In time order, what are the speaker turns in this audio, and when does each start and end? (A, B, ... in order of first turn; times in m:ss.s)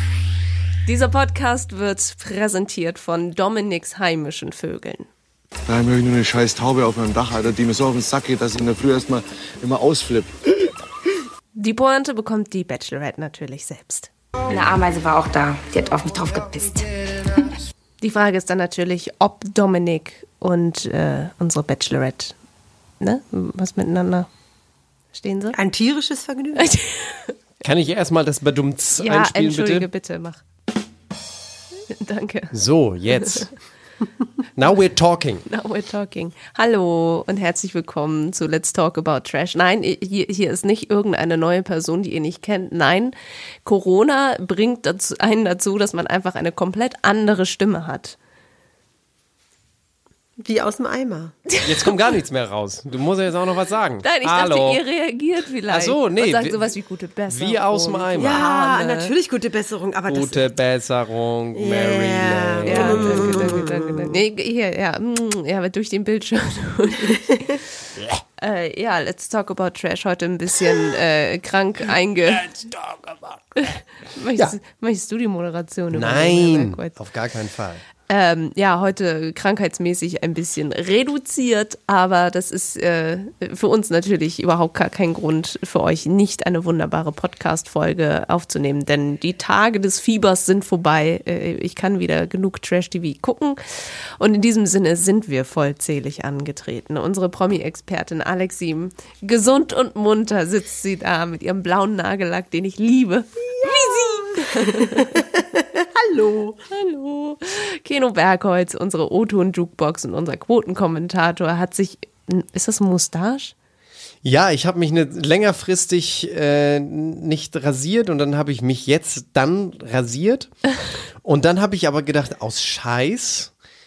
0:00.8-0:05.1 A
0:05.7-0:10.3 B
0:11.6-0:14.1 A
0:14.5-0:17.4 C
0:18.0-0:22.3 A
0:23.0-0:24.3 A
0:25.1-0:25.6 A
0:25.5-0:26.7 D
0:26.6-0:27.3 A
0:27.6-0:29.9 E
0:29.0-0:30.4 A
0:31.9-0:32.5 A
0:32.5-0:33.5 E
0:33.1-0:33.5 A
0:34.6-0:35.4 E
0:35.5-0:48.2 A
0:50.4-0:51.4 D
0:51.6-0:54.8 E
0:54.0-0:59.1 A
0:55.7-0:56.7 E
0:57.3-0:58.4 E
0:58.2-1:00.5 D
1:00.1-1:03.7 E
1:01.5-1:04.2 D
1:02.7-1:07.4 A
1:08.4-1:12.5 A
1:12.3-1:13.4 E
1:13.6-1:16.9 A
1:15.9-1:17.8 E
1:18.1-1:45.1 A
1:43.6-1:44.0 D
1:44.6-1:46.6 D
1:46.7-1:53.5 A
1:54.2-2:00.5 E
2:01.2-2:03.5 E